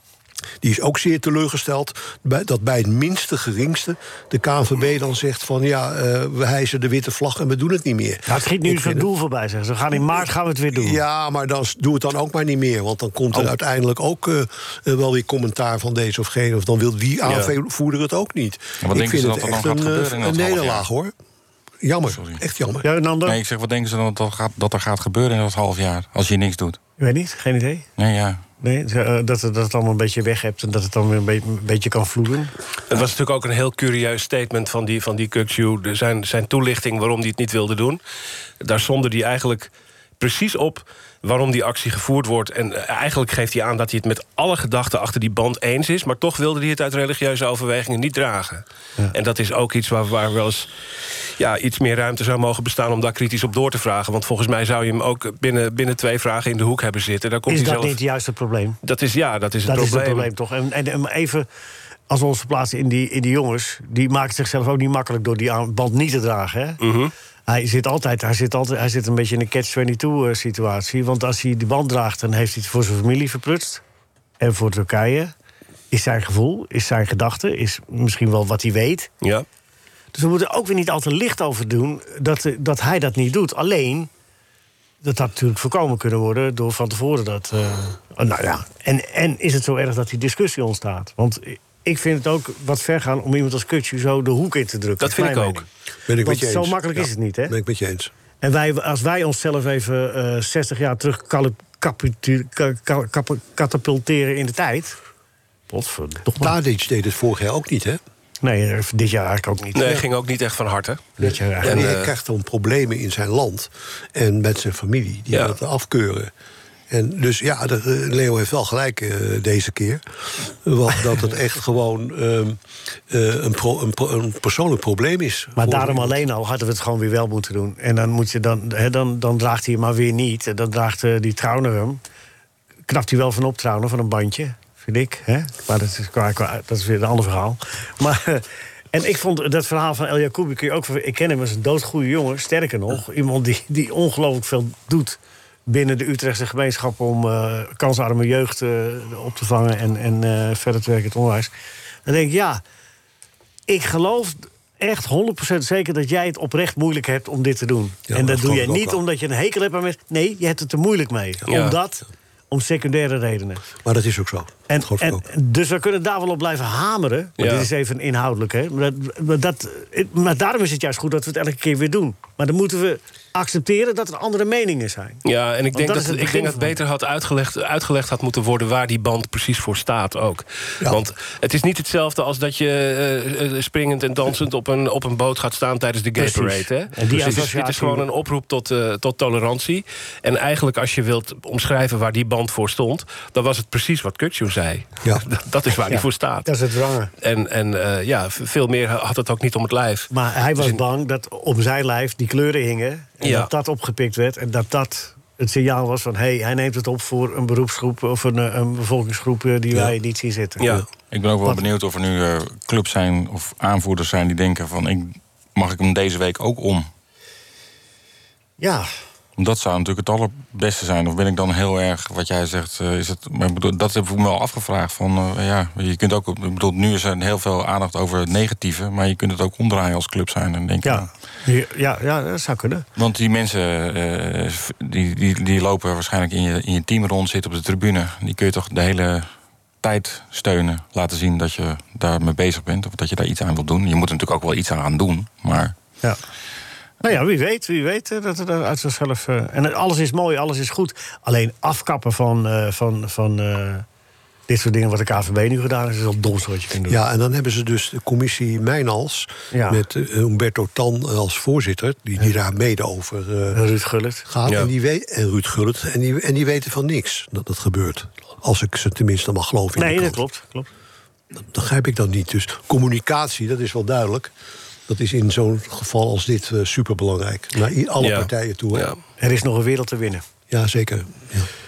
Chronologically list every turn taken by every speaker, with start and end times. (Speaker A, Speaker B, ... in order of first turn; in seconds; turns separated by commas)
Speaker A: 0.6-9.1, Speaker B: 8.3-11.0, Speaker A: 10.7-21.1, Speaker C: 17.2-17.5, Speaker D: 18.8-20.8, Speaker A: 21.8-22.9, Speaker D: 22.1-22.4, Speaker B: 22.8-23.4, Speaker D: 23.2-26.8, Speaker B: 27.0-27.9, Speaker D: 28.0-28.4, Speaker B: 28.6-32.5, Speaker C: 32.9-38.0, Speaker C: 38.6-50.7, Speaker C: 51.4-58.0, Speaker B: 57.5-58.8, Speaker C: 58.8-60.3, Speaker B: 59.6-61.5, Speaker B: 62.1-66.8, Speaker C: 66.8-67.1, Speaker B: 67.5-73.8, Speaker B: 74.4-75.3, Speaker B: 75.9-79.1, Speaker B: 80.1-84.1, Speaker B: 85.0-95.7, Speaker C: 95.0-95.6, Speaker A: 96.1-98.1, Speaker B: 96.2-97.5, Speaker B: 98.4-105.0, Speaker B: 105.7-106.5, Speaker A: 106.4-108.0, Speaker B: 108.4-110.0, Speaker C: 109.8-111.1, Speaker B: 111.2-111.9, Speaker A: 111.2-116.3, Speaker C: 111.6-112.1, Speaker C: 115.3-115.6, Speaker A: 116.9-126.2, Speaker B: 125.6-132.0, Speaker B: 132.9-151.5, Speaker B: 152.1-152.6, Speaker B: 153.7-163.6, Speaker A: 158.1-159.0, Speaker C: 161.5-161.8, Speaker A: 163.8-165.2, Speaker B: 164.7-175.2, Speaker C: 167.4-167.7, Speaker C: 175.2-196.5, Speaker B: 175.7-176.7, Speaker B: 186.2-188.0, Speaker B: 195.9-197.1, Speaker C: 197.2-200.8, Speaker B: 200.1-210.7, Speaker C: 203.2-203.5, Speaker D: 211.1-216.9, Speaker B: 218.6-218.9, Speaker D: 219.4-231.1, Speaker B: 230.8-232.8, Speaker D: 233.0-239.3, Speaker D: 239.8-245.7, Speaker B: 247.0-253.8, Speaker B: 254.5-257.0, Speaker A: 256.9-263.6, Speaker B: 259.5-259.8, Speaker B: 263.5-264.2, Speaker A: 264.2-270.2, Speaker B: 269.8-270.7, Speaker A: 271.3-274.3, Speaker A: 274.9-278.9, Speaker C: 278.0-279.0, Speaker B: 279.2-280.2, Speaker A: 280.5-281.5